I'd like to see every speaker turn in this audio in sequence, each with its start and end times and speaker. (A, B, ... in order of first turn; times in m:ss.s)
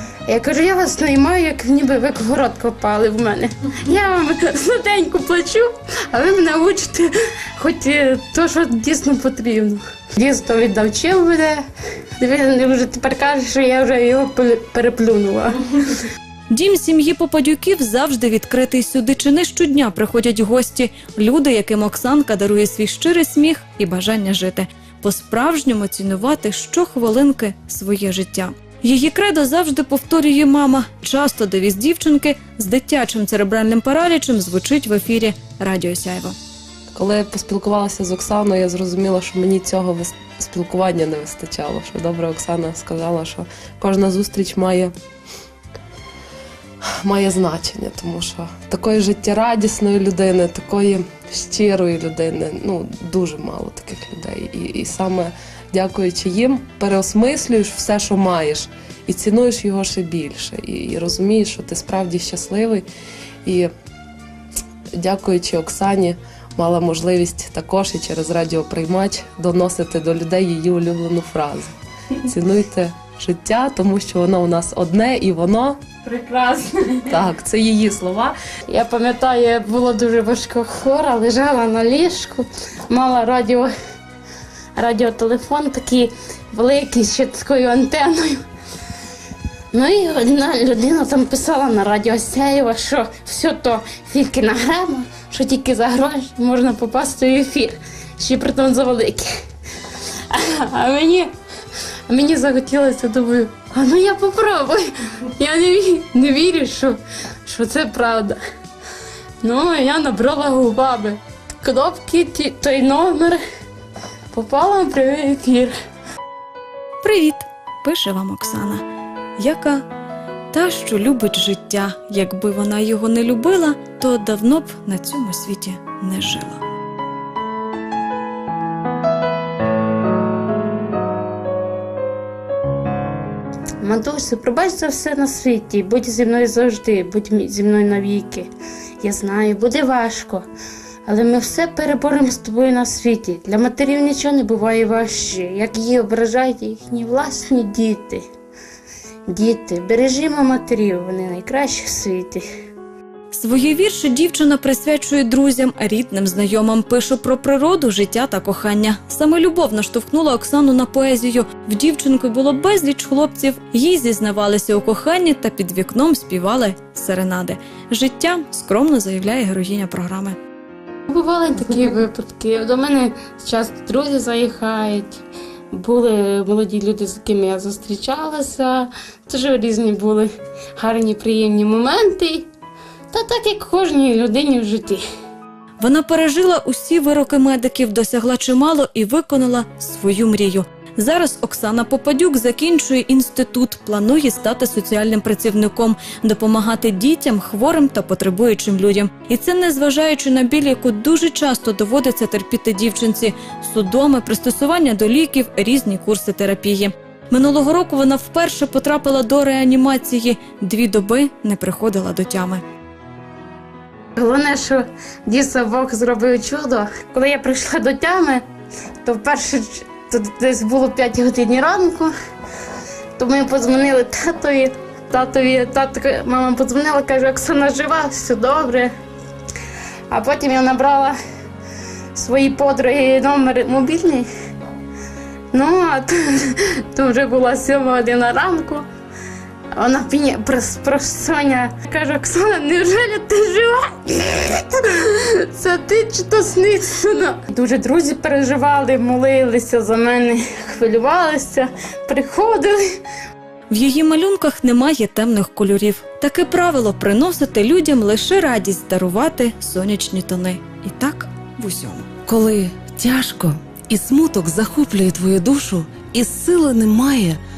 0:00.3-0:11.6 A
0:12.2-0:16.0 A
0:16.5-0:36.4 B
0:36.9-0:44.9 C
0:47.0-1:02.9 C
1:03.4-1:03.7 C
1:05.0-1:15.8 C
1:16.0-1:17.2 A
1:17.1-1:18.4 C
1:18.7-1:23.7 A
1:24.8-1:28.4 A
1:29.7-1:39.3 A
1:40.3-1:41.3 A
1:42.1-1:48.4 A
1:49.4-1:53.4 A
1:54.3-1:55.7 A
1:57.0-1:58.8 B
1:59.4-1:59.8 B
2:00.5-2:06.6 B
2:13.8-2:18.5 A
2:19.0-2:20.4 A
2:21.1-2:28.2 A
2:29.3-2:32.4 A
2:33.3-2:50.4 B
2:51.1-2:55.2 A
2:55.7-3:02.5 A
3:03.1-3:05.0 A
3:05.8-3:32.6 B
3:34.2-3:38.4 A
3:39.0-3:42.1 A
3:43.2-3:48.9 A
3:50.1-3:51.2 A
3:52.2-3:54.3 A
3:55.5-3:58.9 A
3:59.7-4:13.0 A
4:13.7-4:22.1 B
4:22.3-4:27.4 D